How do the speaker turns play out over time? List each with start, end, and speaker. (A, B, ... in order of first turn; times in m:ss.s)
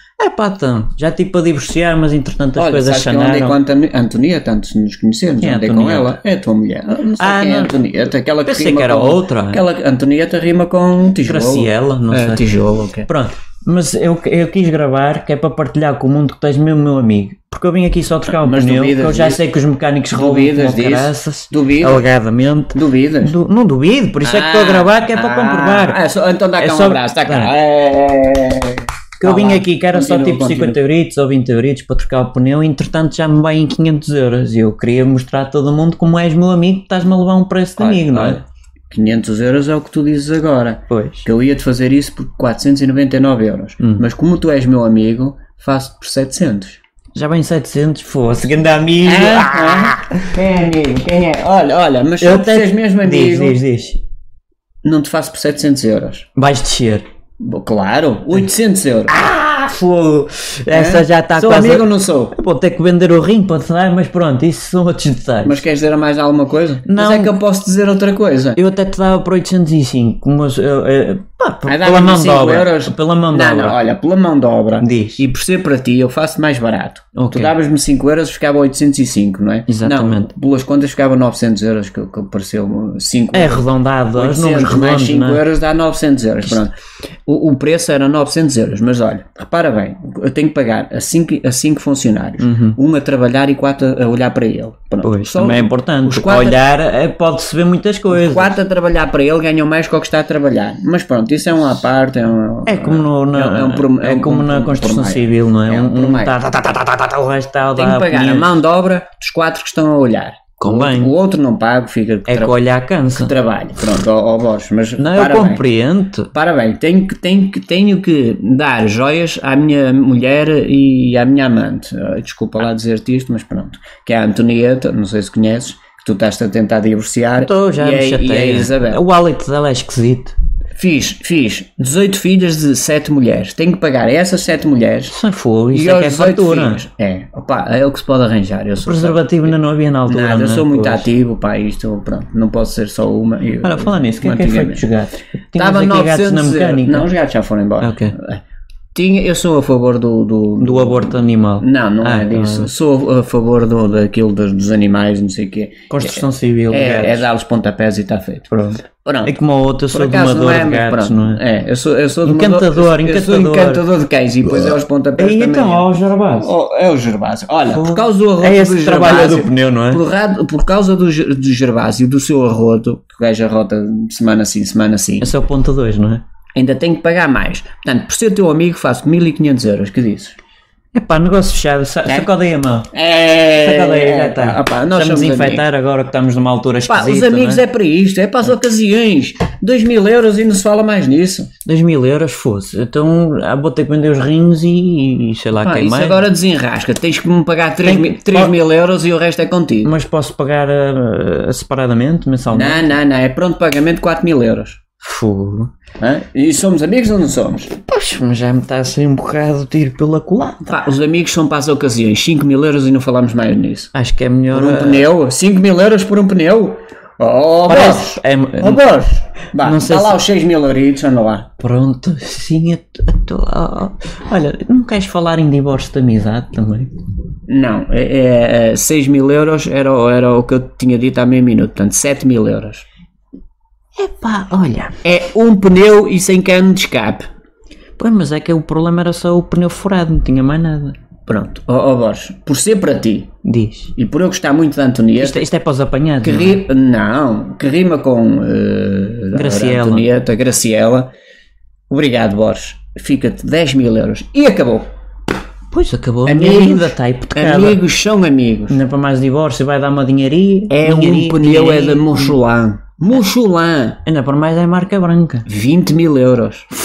0:00.2-0:03.6 A
0:02.6-0:13.1 B
0:05.4-0:06.2 A
0:07.2-0:09.6 A
0:11.2-0:12.4 A
0:13.1-0:26.0 A
0:18.3-0:19.4 B
0:20.1-0:22.0 B
0:22.7-0:23.4 B
0:24.2-0:30.8 B
0:26.6-0:27.5 A
0:29.2-0:38.4 A
0:37.8-0:46.8 B
0:40.9-0:41.3 A
0:47.2-0:50.1 A
0:49.0-0:53.6 B
0:52.2-0:54.0 A
0:54.8-0:56.3 B
0:56.4-0:57.0 A
0:57.4-0:59.1 B
0:59.1-1:05.6 A
1:00.7-1:02.4 B
1:05.4-1:08.6 B
1:06.9-1:07.4 A
1:08.6-1:13.8 A
1:11.7-1:26.7 B
1:14.8-1:15.2 A
1:17.2-1:17.5 A
1:19.7-1:20.3 A
1:23.3-1:25.4 A
1:27.3-1:36.6 B
1:32.4-1:32.8 A
1:35.0-1:38.6 A
1:38.1-1:46.3 B
1:42.7-1:48.6 A
1:47.7-1:52.6 B
1:50.6-1:51.1 A
1:52.3-1:53.3 A
1:53.2-1:55.6 B
1:55.0-1:56.3 A
1:56.3-2:09.0 B
2:07.4-2:10.4 A
2:10.8-2:15.2 B
2:15.1-2:16.8 A
2:15.7-2:19.6 B
2:18.8-2:21.1 A
2:20.1-2:24.8 B
2:23.6-2:27.1 A
2:25.6-2:28.4 B
2:27.8-2:28.1 A
2:28.9-2:39.4 B
2:30.6-2:32.7 A
2:35.9-2:37.2 A
2:38.5-2:41.4 A
2:39.9-2:55.3 B
2:42.2-2:43.8 A
2:44.6-2:46.5 A
2:47.7-2:50.0 A
2:55.2-2:56.2 A
2:56.6-3:00.4 B
3:00.9-3:02.9 A
3:02.9-3:05.6 B
3:03.6-3:07.6 A
3:06.9-3:11.5 B
3:11.7-3:16.2 A
3:15.6-3:19.9 B
3:17.8-3:18.5 A
3:19.8-3:22.9 A
3:22.5-3:24.8 B
3:25.0-3:25.7 A
3:26.0-3:27.7 B
3:27.9-3:30.9 A
3:30.7-3:33.9 B
3:33.9-3:35.1 A
3:34.5-3:41.5 B
3:37.7-3:40.2 A
3:41.6-3:46.9 A
3:47.5-3:52.8 B
3:54.0-3:55.0 A
3:55.0-3:57.2 B
3:58.0-4:01.0 A
4:01.3-4:03.3 B
4:03.4-4:03.9 A
4:04.0-4:05.5 B
4:05.2-4:06.6 A
4:06.2-4:11.1 B
4:09.3-4:10.1 A
4:11.9-4:14.9 B
4:15.7-4:17.8 A
4:16.3-4:18.8 B
4:18.7-4:22.4 A
4:20.7-4:24.0 B
4:24.1-4:25.5 A
4:25.5-4:26.7 B